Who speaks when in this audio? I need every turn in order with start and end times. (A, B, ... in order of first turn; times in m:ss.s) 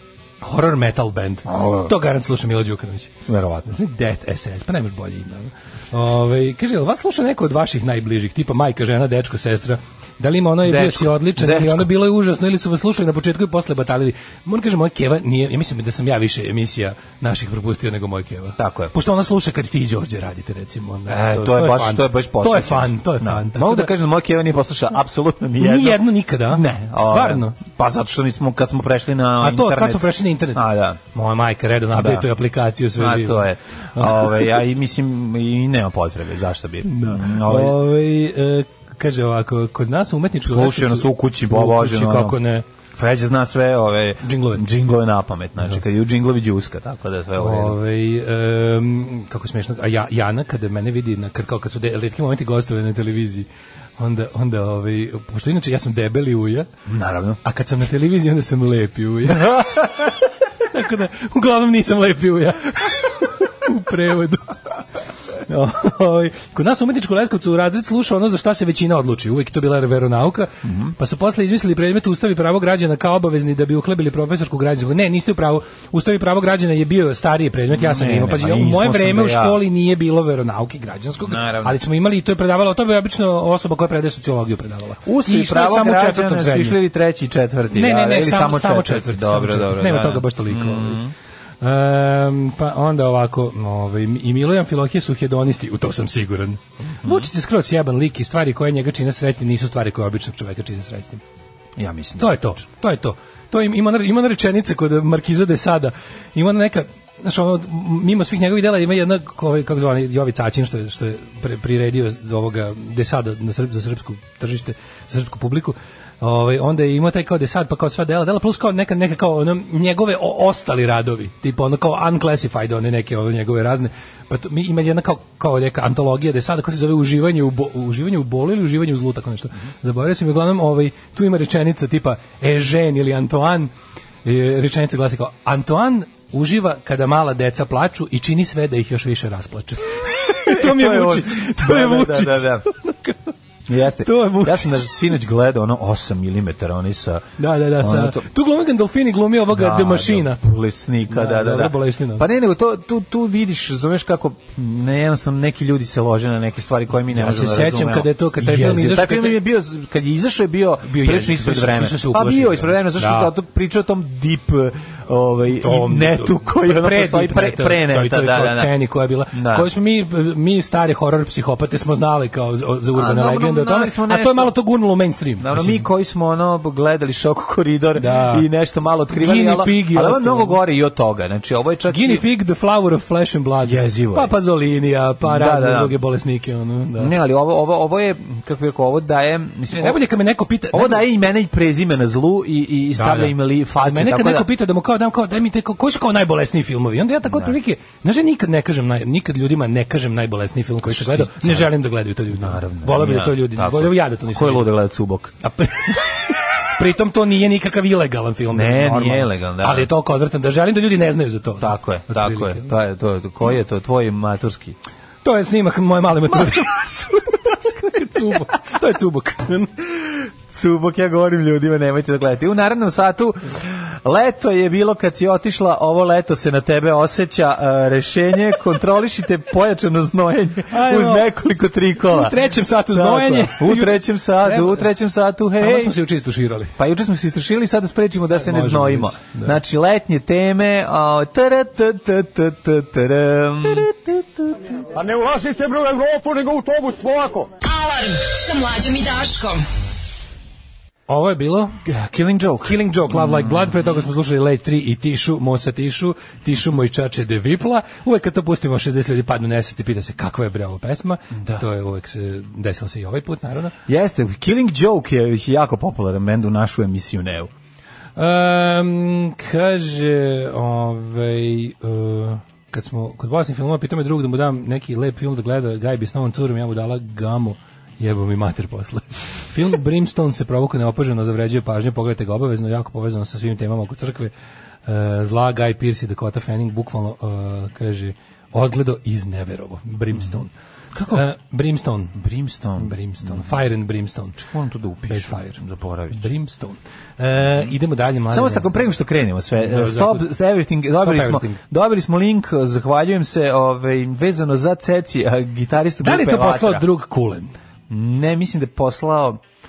0:00.4-0:03.1 A
0:01.5-0:01.9 B
0:03.2-0:03.7 B
0:03.7-0:23.9 A
0:10.6-0:11.9 B
0:18.6-0:18.9 B
0:21.1-0:31.0 B
0:25.6-0:27.6 A
0:29.4-0:34.6 A
0:31.9-0:32.3 B
0:33.0-0:37.8 B
0:36.8-0:42.6 A
0:40.4-0:42.4 B
0:42.9-0:47.8 B
0:44.2-0:44.6 A
0:47.4-0:53.5 A
0:54.0-0:56.7 A
0:56.9-0:57.4 B
0:57.4-1:00.1 A
0:59.3-1:00.1 B
1:00.7-1:04.5 A
1:05.5-1:26.8 A
1:10.6-1:10.9 B
1:17.7-1:19.6 B
1:21.2-1:21.8 B
1:25.0-1:31.1 B
1:27.7-1:31.0 A
1:31.6-1:41.2 A
1:37.0-1:37.3 B
1:41.8-1:42.5 B
1:42.2-2:13.7 A
2:14.2-2:23.3 A
2:20.3-2:22.7 B
2:23.7-2:28.3 B
2:24.0-2:24.9 A
2:27.4-2:30.4 A
2:29.5-2:48.7 B
2:31.1-2:32.2 A
2:37.1-2:39.4 A
2:40.8-2:43.3 A
2:45.6-2:55.9 A
2:49.3-2:49.7 B
2:52.9-2:54.5 B
2:55.4-3:02.2 B
2:58.0-2:58.4 A
2:59.1-3:00.6 A
3:01.9-3:07.1 A
3:03.6-3:04.3 B
3:05.2-3:05.9 B
3:07.0-3:10.0 B
3:09.7-3:11.0 A
3:10.7-3:14.5 B
3:13.0-3:24.7 A
3:17.3-3:17.6 B
3:20.8-3:21.7 B
3:22.3-3:25.3 B
3:25.4-3:32.7 A
3:28.5-3:29.9 B
3:31.6-3:34.8 B
3:35.2-3:39.7 A
3:39.9-3:56.0 B
3:50.7-3:51.3 A
3:52.0-3:54.9 A
3:55.6-3:56.7 A
3:56.8-4:04.2 B
3:58.4-3:59.6 A
4:04.9-4:07.5 C
4:07.6-4:09.6 D
4:11.1-4:11.7 A
4:11.8-4:14.0 B
4:12.6-4:23.7 A
4:21.3-4:21.6 B
4:23.9-4:27.5 B
4:28.2-4:44.3 A
4:44.8-4:50.5 A
4:50.9-4:51.2 B
4:51.1-4:52.2 A
4:52.1-4:53.6 B
4:52.8-4:54.4 A
4:54.4-4:56.3 B
4:55.1-4:55.6 A
4:56.1-4:58.9 A
4:57.4-4:57.7 B
4:58.3-5:06.8 B
4:59.6-5:00.3 A
5:01.0-5:01.6 A
5:06.0-5:07.5 A
5:07.9-5:09.4 B